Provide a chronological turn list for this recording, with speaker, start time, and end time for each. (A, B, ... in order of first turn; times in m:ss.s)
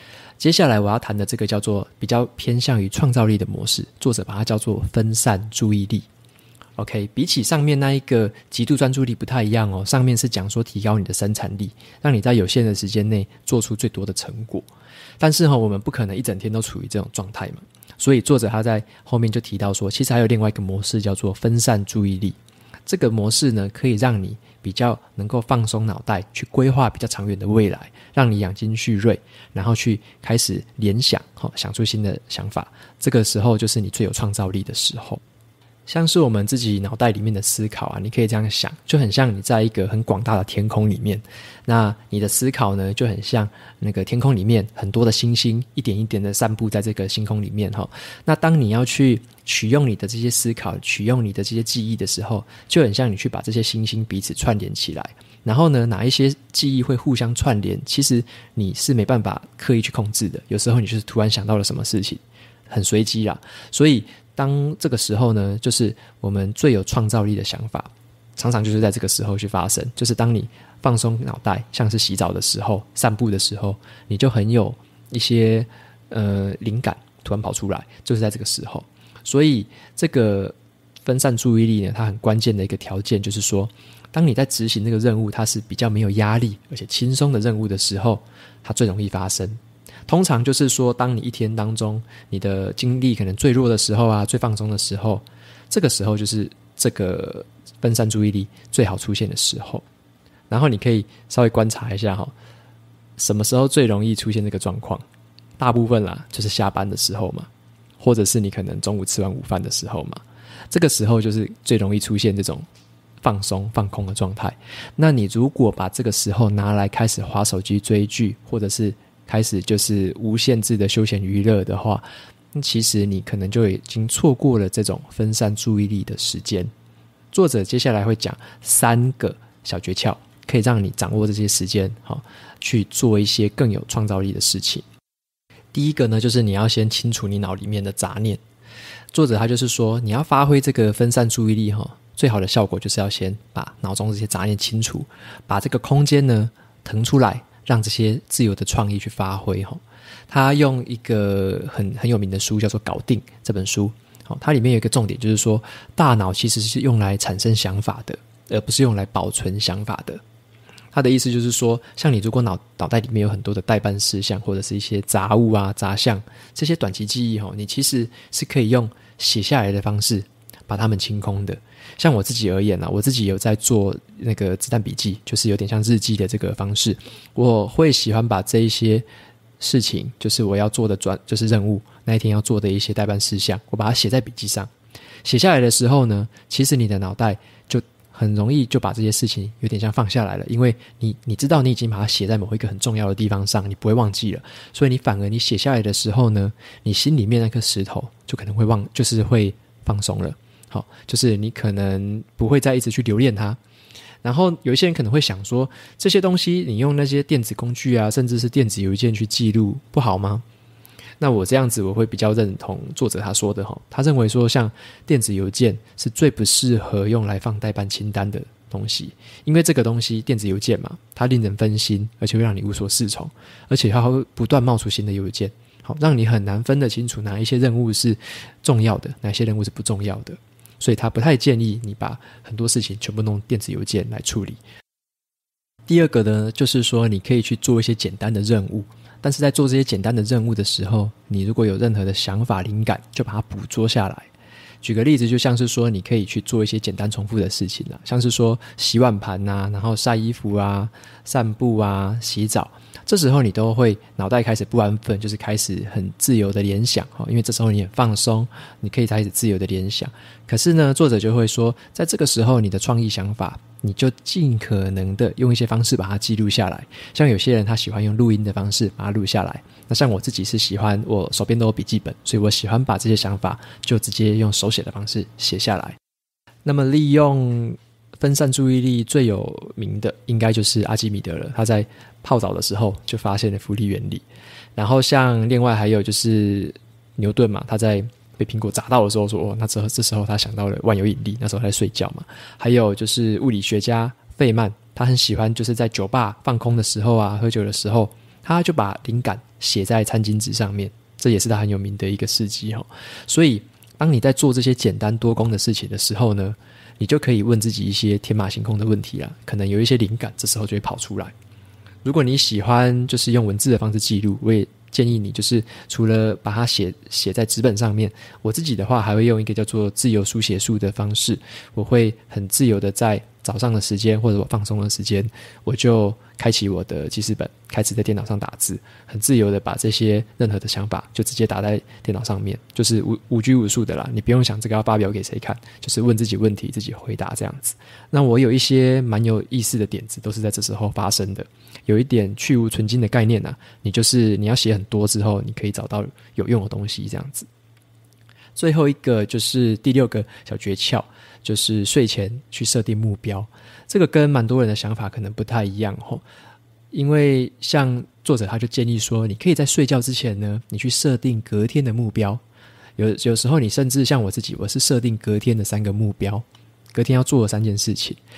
0:00.4-0:06.0 A
0:06.8-0:14.7 A
0:15.2-0:35.2 A
0:35.9-1:39.8 A
1:40.5-1:42.3 A
1:43.2-1:45.0 A
1:45.6-1:47.5 A
1:48.0-1:52.6 A
1:53.2-2:06.7 A
2:07.3-2:14.8 A
2:15.7-2:18.4 A
2:19.1-2:40.2 A
2:40.9-2:59.0 A
2:59.6-3:04.7 A
3:05.2-3:23.6 A
3:24.2-3:30.4 A
3:31.2-3:54.6 A
3:55.9-4:04.3 A
4:04.8-4:36.0 A
4:36.6-4:44.2 A
4:44.8-5:11.3 A
5:12.0-5:47.5 A
5:48.6-5:56.2 A
5:56.9-6:02.4 A
6:03.0-6:08.2 A